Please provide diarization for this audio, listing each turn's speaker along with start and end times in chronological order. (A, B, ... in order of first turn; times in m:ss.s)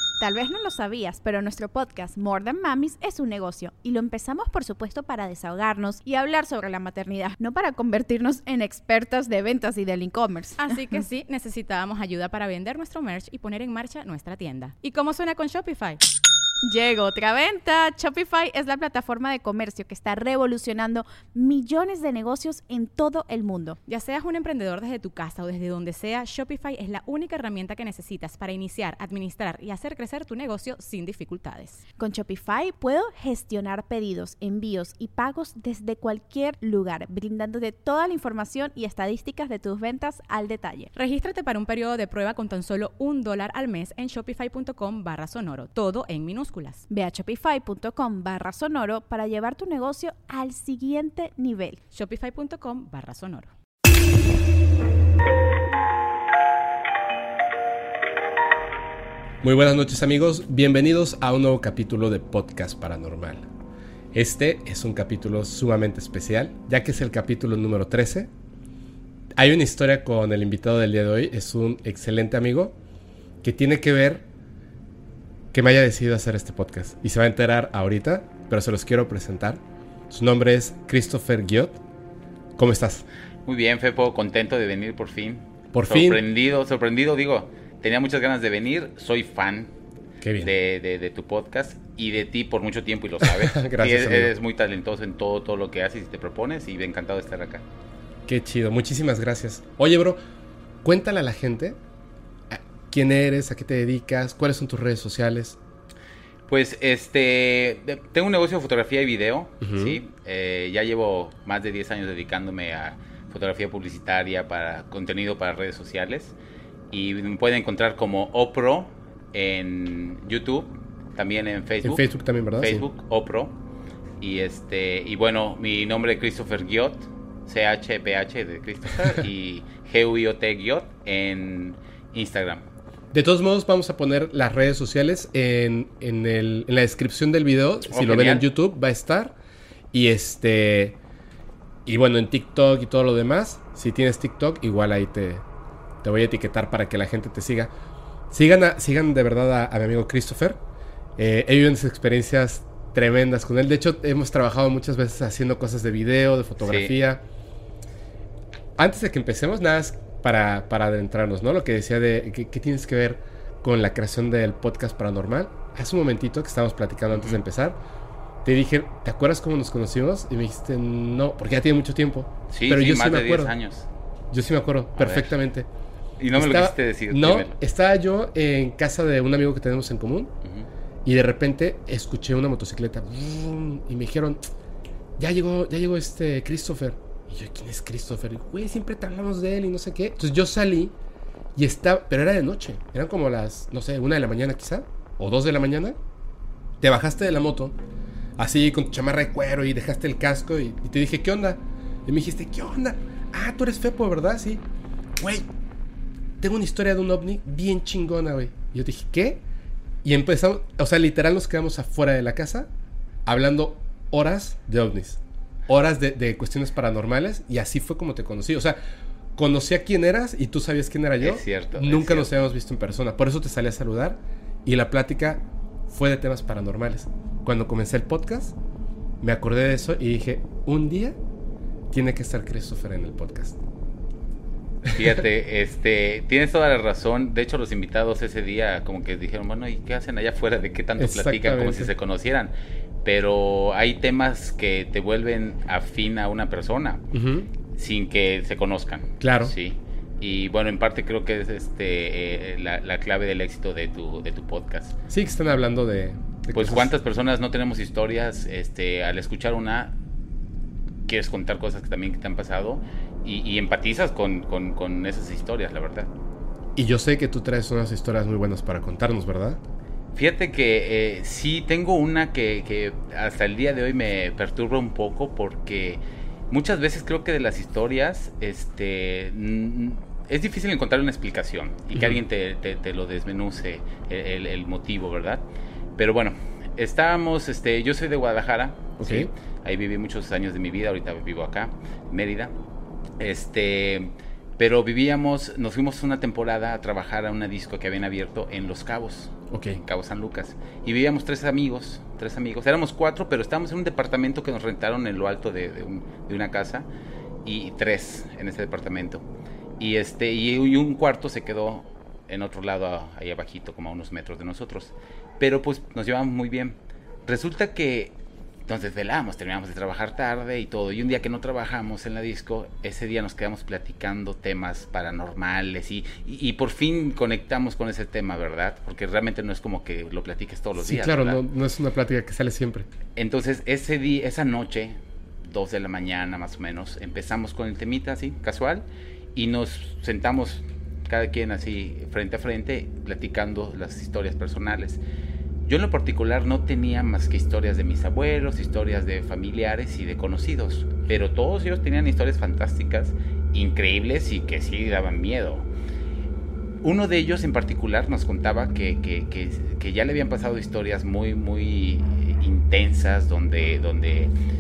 0:00.2-0:11.0 A
0:10.6-0:16.0 B
0:16.6-0:23.8 A
0:23.8-0:31.8 B
0:32.0-0:40.9 A
0:40.9-0:46.8 B
0:46.9-0:51.8 A
0:51.9-0:53.5 B
0:59.4-1:03.5 C
1:04.1-1:08.3 C
1:09.4-1:12.8 C
1:13.4-1:14.3 C
1:15.5-1:21.8 C
1:22.6-1:23.0 C
1:23.4-1:29.7 D
1:25.7-1:26.2 C
1:30.2-1:30.5 C
1:30.4-1:37.6 D
1:33.2-1:34.3 C
1:38.3-1:40.2 C
1:40.8-1:41.8 C
1:42.5-1:45.6 C
1:46.5-1:56.4 D
1:49.6-1:50.0 C
1:56.9-2:03.6 D
2:01.8-2:02.8 C
2:04.2-2:12.6 D
2:13.1-2:19.4 C
2:17.9-2:18.5 D
2:19.9-2:21.0 C
2:21.8-2:25.4 C
2:26.0-2:27.7 C
2:28.3-2:30.6 C
2:31.2-2:37.2 C
2:36.6-2:37.0 D
2:38.8-2:47.8 C
2:47.1-2:47.4 D
2:48.4-2:53.5 C
2:52.5-2:53.9 D
2:54.3-2:55.7 C
2:55.0-2:55.3 D
2:56.2-2:57.6 D
2:56.3-3:00.3 C
3:01.0-3:04.4 C
3:05.2-3:10.9 C
3:11.6-3:16.0 C
3:16.8-3:17.7 C
3:18.4-3:24.6 C
3:25.2-3:25.5 C
3:26.4-3:29.4 C
3:30.0-3:32.7 C
3:33.2-3:38.8 C
3:39.4-3:48.5 C
3:41.2-3:42.3 D
3:49.2-3:51.2 C
3:51.9-3:53.6 C
3:54.9-4:02.5 D
4:01.0-4:01.9 C
4:03.0-4:07.0 D
4:07.1-4:07.5 C
4:07.7-4:14.9 D
4:09.2-4:09.5 C
4:15.1-4:16.9 C
4:16.5-4:19.9 D
4:21.1-4:26.1 D
4:26.8-4:29.6 C
4:30.1-4:45.4 D
4:41.9-4:42.2 C
4:46.0-4:52.5 D
4:49.0-4:49.3 C
4:53.2-5:06.9 D
4:59.5-4:59.8 C
5:07.4-5:09.2 D
5:09.8-5:18.1 D
5:18.7-5:31.4 D
5:30.8-5:32.9 C
5:33.2-5:45.0 D
5:45.6-5:55.7 D
5:56.8-6:04.3 D